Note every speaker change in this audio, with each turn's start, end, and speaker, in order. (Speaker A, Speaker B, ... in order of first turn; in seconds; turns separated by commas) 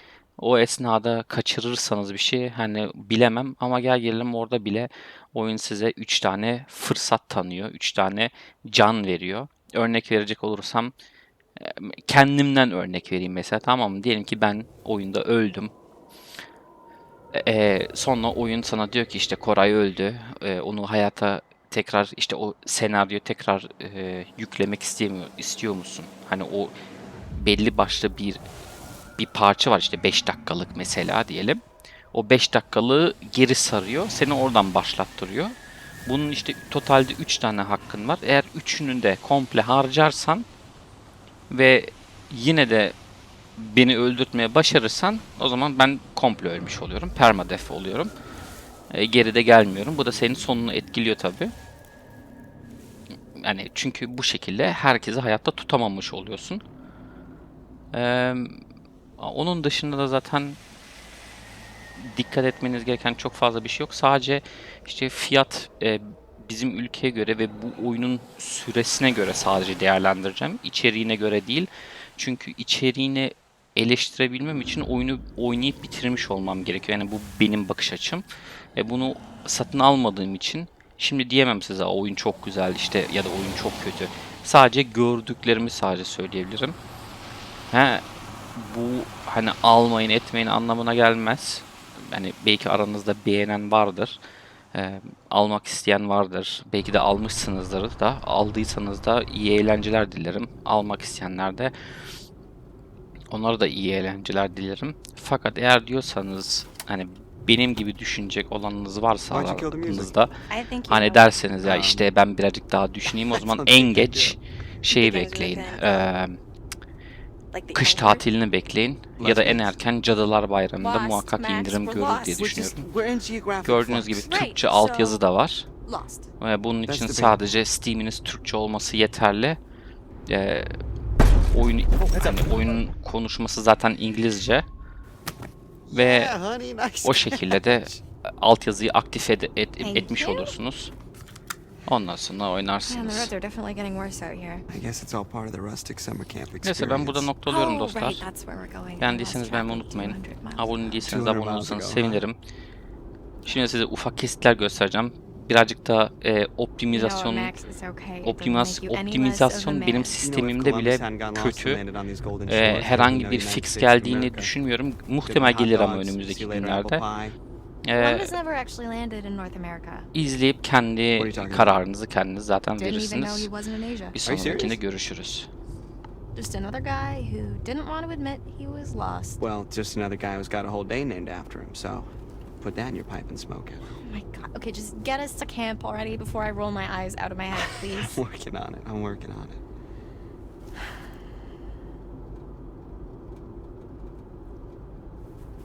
Speaker A: 0.4-10.9, Speaker A: 11.6-15.7, Speaker A: 17.3-26.7, Speaker A: 27.4-28.4, Speaker A: 29.2-31.6, Speaker A: 32.1-35.5, Speaker A: 36.1-40.5, Speaker A: 41.5-43.0, Speaker A: 43.6-48.1, Speaker A: 48.9-51.5, Speaker A: 53.4-56.6, Speaker A: 57.9-58.6, Speaker A: 59.2-60.6, Speaker A: 62.0-78.2, Speaker A: 78.8-86.8, Speaker A: 87.7-88.0, Speaker A: 88.6-94.2, Speaker A: 94.7-101.7, Speaker A: 103.3-110.4, Speaker B: 109.3-110.2, Speaker C: 110.5-111.3, Speaker A: 110.9-116.4, Speaker B: 111.6-112.1, Speaker B: 113.3-114.4, Speaker C: 114.9-116.1, Speaker C: 117.5-118.2, Speaker A: 117.7-122.8, Speaker B: 119.2-119.7, Speaker C: 120.8-122.5, Speaker B: 122.3-124.3, Speaker A: 123.6-125.7, Speaker C: 124.2-125.2, Speaker C: 125.9-126.3, Speaker A: 126.4-129.6, Speaker B: 126.9-127.6, Speaker A: 130.3-130.7, Speaker A: 131.5-134.7, Speaker B: 132.0-132.8, Speaker B: 135.9-138.0, Speaker A: 135.9-136.4, Speaker A: 137.0-140.9, Speaker C: 139.8-140.5, Speaker A: 141.9-143.3, Speaker C: 142.9-144.7, Speaker B: 144.7-147.3, Speaker A: 146.6-148.2, Speaker C: 147.5-151.1, Speaker A: 149.0-152.4, Speaker B: 151.1-152.2, Speaker A: 153.5-157.5, Speaker C: 156.9-160.2, Speaker A: 158.2-161.8, Speaker B: 160.2-164.5, Speaker A: 162.5-167.0, Speaker B: 165.2-167.4, Speaker A: 167.8-168.3, Speaker C: 167.9-170.1, Speaker A: 170.1-173.5, Speaker B: 171.2-171.8, Speaker C: 172.8-174.2, Speaker A: 174.1-175.5, Speaker B: 174.2-174.8, Speaker C: 176.4-179.4, Speaker B: 179.4-182.1, Speaker B: 182.6-183.8, Speaker C: 184.0-188.2, Speaker B: 187.5-189.6